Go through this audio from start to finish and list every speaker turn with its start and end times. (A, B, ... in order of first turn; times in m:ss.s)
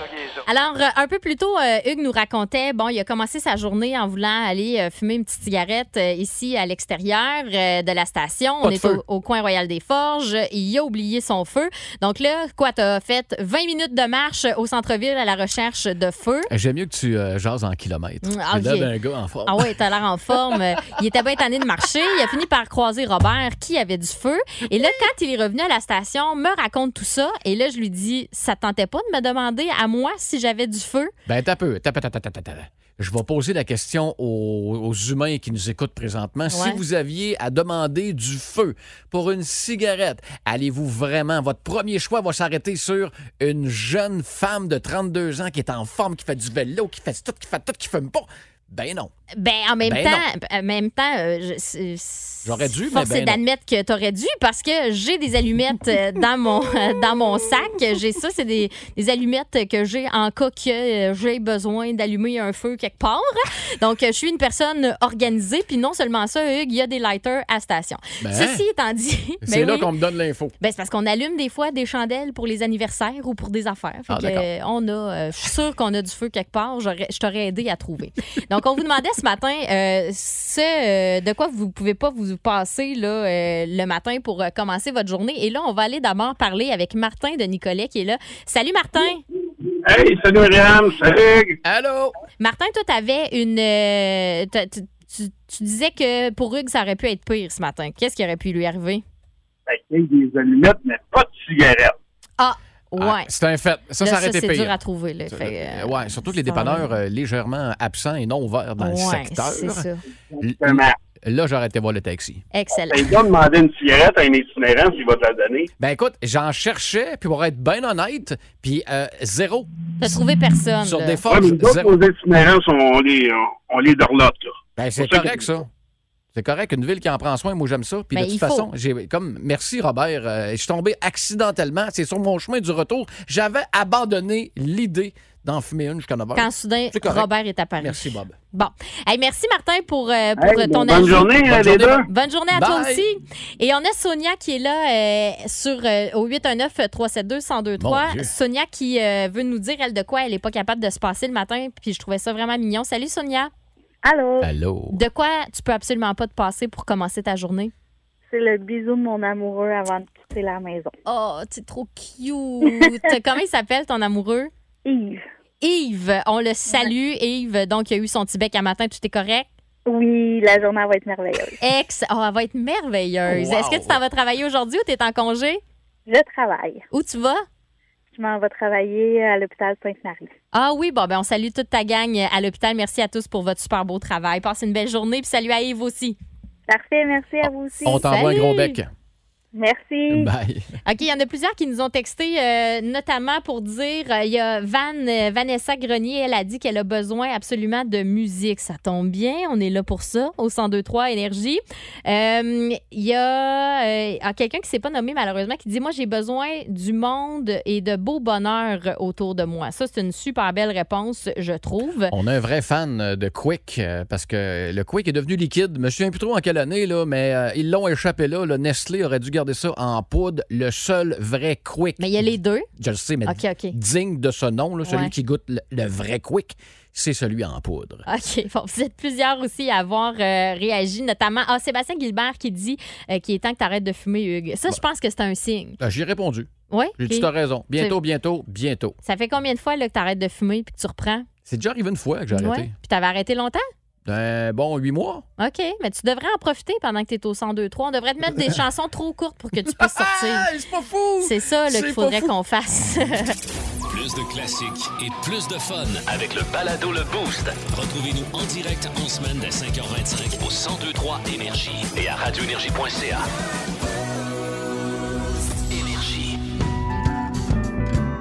0:00.4-0:16.5 A
0:08.6-0:09.0 B
0:16.5-0:19.7 B
0:18.2-0:18.9 A
0:19.4-0:31.1 A
0:31.2-0:49.1 B
0:36.5-0:36.8 A
0:49.3-1:09.9 A
0:49.8-0:50.2 B
0:52.4-0:53.4 B
1:08.2-1:08.6 B
1:09.4-1:10.5 B
1:10.6-1:29.2 A
1:14.1-1:14.4 B
1:29.8-1:31.6 C
1:31.6-1:32.2 B
1:32.4-1:39.0 A
1:39.7-1:41.9 C
1:42.4-1:43.3 A
1:43.0-1:44.8 B
1:44.0-1:46.9 A
1:45.3-1:49.9 B
1:48.8-1:50.0 A
1:50.4-1:51.0 C
1:50.4-1:52.4 B
1:52.5-1:53.1 A
1:52.8-1:55.7 C
1:55.8-1:59.7 B
2:00.0-2:01.2 A
2:00.8-2:02.0 B
2:01.3-2:05.4 C
2:04.8-2:05.7 B
2:06.3-2:17.3 B
2:08.1-2:08.7 A
2:16.3-2:21.4 A
2:17.8-2:18.4 B
2:20.4-2:22.0 C
2:21.3-2:23.0 B
2:21.9-2:33.5 A
2:27.8-2:28.3 B
2:34.0-2:34.5 D
2:34.4-2:35.0 B
2:34.9-2:37.7 A
2:38.3-2:40.9 D
2:41.0-2:44.5 A
2:44.8-2:45.2 D
2:45.6-2:49.5 A
2:49.9-2:51.6 D
2:51.6-2:55.6 A
2:53.2-2:54.0 B
2:56.1-2:56.8 D
2:56.9-2:57.4 A
2:58.1-3:00.3 D
3:00.5-3:06.2 A
3:06.7-3:08.1 D
3:07.8-3:08.9 B
3:07.9-3:08.8 A
3:09.5-3:10.3 D
3:10.1-3:10.7 B
3:10.8-3:32.1 A
3:32.1-3:48.0 B
3:42.0-3:42.7 A
3:43.2-3:43.7 A
3:44.8-3:45.1 A
3:48.1-3:55.8 A
3:55.8-3:59.0 B
3:56.7-3:58.0 A
3:59.0-4:01.3 A
4:01.4-4:02.7 B
4:02.3-4:03.6 A
4:04.0-4:05.2 B
4:05.4-4:10.5 A
4:09.7-4:12.3 B
4:11.2-4:13.4 A
4:13.9-4:23.3 E
4:25.7-4:26.4 E